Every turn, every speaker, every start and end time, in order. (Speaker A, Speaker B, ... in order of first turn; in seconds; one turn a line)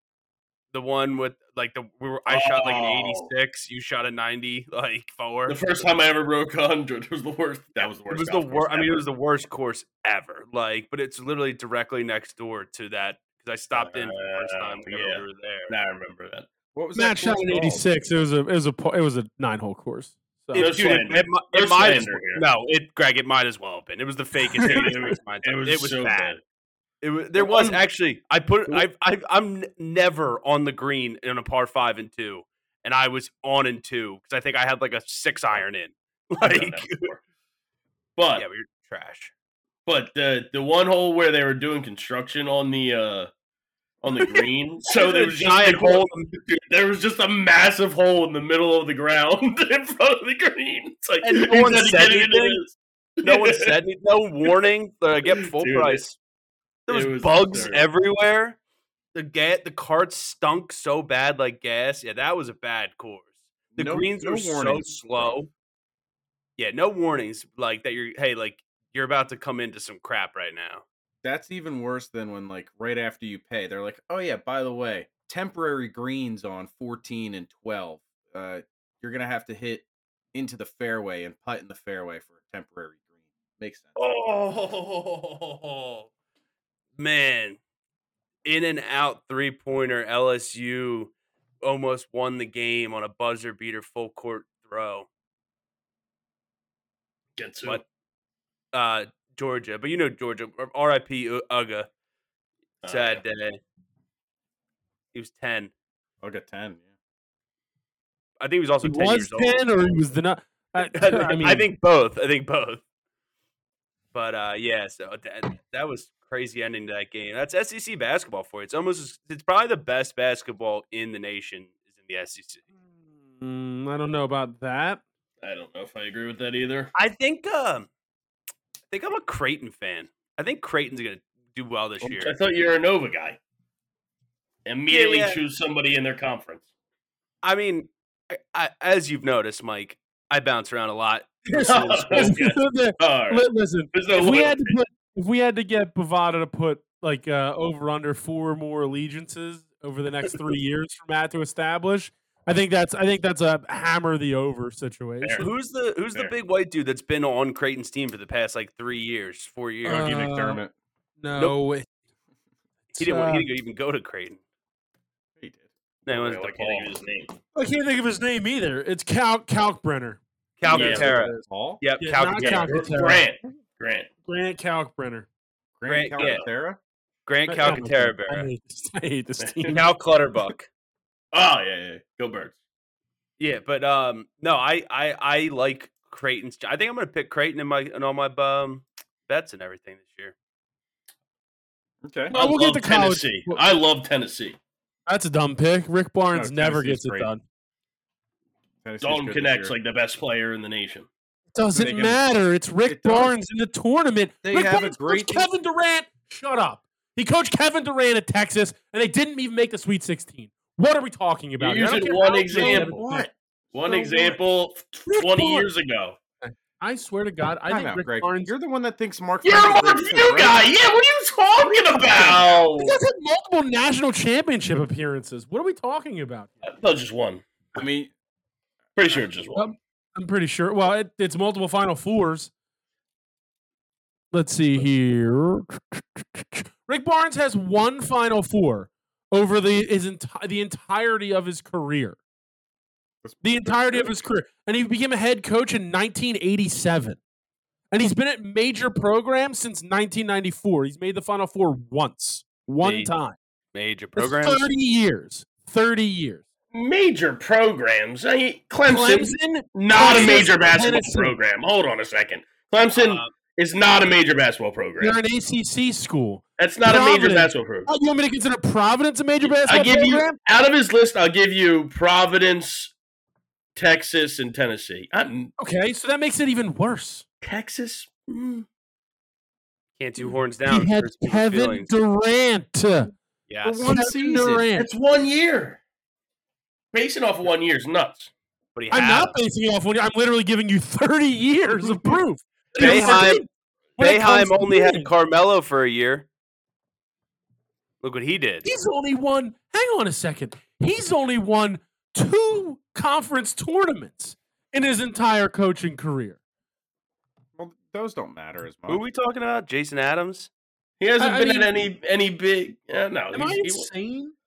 Speaker A: 0.7-5.8
Speaker B: 2.3-3.3
Speaker B: 5.5-9.0
Speaker A: 8.1-15.7
Speaker B: 13.7-16.5
Speaker C: 16.7-17.9
Speaker D: 16.9-20.8
Speaker A: 20.5-26.4
Speaker B: 20.5-22.4
Speaker B: 24.6-26.4
Speaker A: 27.0-37.1
Speaker B: 27.4-27.8
Speaker B: 36.4-37.2
Speaker B: 38.2-38.4
Speaker A: 38.4-39.3
Speaker B: 39.9-43.3
Speaker B: 44.0-53.7
Speaker A: 44.1-46.3
Speaker A: 51.2-52.6
Speaker A: 53.2-56.2
Speaker B: 55.4-56.0
Speaker B: 56.9-57.9
Speaker A: 56.9-58.6
Speaker A: 59.1-65.5
Speaker C: 63.7-65.4
Speaker A: 66.6-70.8
Speaker C: 71.2-83.0
Speaker C: 83.6-84.0
Speaker A: 84.0-86.1
Speaker A: 87.0-87.6
Speaker A: 88.4-95.1
Speaker B: 97.4-97.8
Speaker A: 98.7-101.9
Speaker B: 102.8-103.2
Speaker A: 102.8-103.6
Speaker A: 105.1-105.7
Speaker C: 106.2-106.8
Speaker A: 108.4-109.7
Speaker D: 108.8-111.7
Speaker A: 110.9-112.8
Speaker A: 114.1-122.6
Speaker D: 123.4-125.0
Speaker B: 125.4-126.9
Speaker A: 126.9-127.9
Speaker A: 128.9-132.4
Speaker B: 132.0-133.4
Speaker B: 134.6-136.7
Speaker A: 134.9-135.4
Speaker A: 137.4-142.4
Speaker B: 141.5-144.8
Speaker D: 142.1-155.5
Speaker B: 155.2-155.5
Speaker A: 155.4-160.1
Speaker D: 159.8-160.6
Speaker C: 159.8-160.7
Speaker D: 161.2-161.8
Speaker D: 163.0-163.5
Speaker A: 163.0-164.4
Speaker C: 165.4-165.7
Speaker A: 166.1-166.9
Speaker B: 166.1-167.3
Speaker D: 167.5-170.2
Speaker A: 170.6-172.9
Speaker C: 170.7-171.8
Speaker B: 170.7-171.1
Speaker D: 170.9-171.4
Speaker D: 172.0-173.2
Speaker B: 172.4-174.1
Speaker D: 174.2-175.3
Speaker C: 175.8-176.8
Speaker A: 175.9-176.4
Speaker B: 176.2-176.4
Speaker A: 177.2-178.5
Speaker D: 177.5-179.8
Speaker B: 179.4-179.7
Speaker A: 179.7-180.7
Speaker B: 181.3-182.6
Speaker A: 183.4-190.3
Speaker C: 192.0-192.3
Speaker D: 192.3-193.6
Speaker B: 192.3-194.6
Speaker D: 195.1-197.4
Speaker C: 196.3-197.3
Speaker C: 198.8-199.8
Speaker B: 199.0-201.1
Speaker D: 201.5-213.3
Speaker C: 201.8-202.2
Speaker C: 202.8-203.3
Speaker C: 204.4-205.5
Speaker B: 211.6-213.0
Speaker C: 212.5-213.3
Speaker B: 213.7-216.2
Speaker D: 213.8-214.4
Speaker D: 215.1-215.7
Speaker D: 216.4-218.5
Speaker C: 217.7-220.7
Speaker B: 219.4-223.0
Speaker C: 221.9-222.7
Speaker D: 222.8-226.5
Speaker B: 226.6-227.4
Speaker C: 227.7-228.1
Speaker B: 228.9-229.7
Speaker D: 229.5-232.5
Speaker D: 234.3-242.2
Speaker C: 243.2-244.1
Speaker D: 243.4-247.2
Speaker D: 247.9-253.4
Speaker A: 252.8-253.1
Speaker A: 253.7-254.6
Speaker D: 254.2-256.4
Speaker B: 256.7-265.2
Speaker D: 258.9-261.3
Speaker A: 260.1-260.5
Speaker A: 262.9-263.3
Speaker D: 265.0-270.4
Speaker B: 266.6-267.9
Speaker B: 269.5-272.9
Speaker B: 273.8-275.5
Speaker D: 275.6-277.2
Speaker B: 277.4-278.6
Speaker A: 280.0-281.9
Speaker D: 280.2-283.1
Speaker A: 283.5-283.9
Speaker C: 283.6-284.6
Speaker D: 283.9-284.9
Speaker B: 284.8-285.8
Speaker B: 286.9-288.3
Speaker A: 288.8-289.3
Speaker D: 288.9-295.1
Speaker B: 292.7-293.4
Speaker A: 292.8-293.4
Speaker A: 294.0-296.3
Speaker A: 298.0-298.6
Speaker D: 298.6-306.4
Speaker C: 307.6-309.0
Speaker A: 308.9-310.5
Speaker B: 311.0-313.9
Speaker D: 311.2-311.7
Speaker D: 313.3-314.3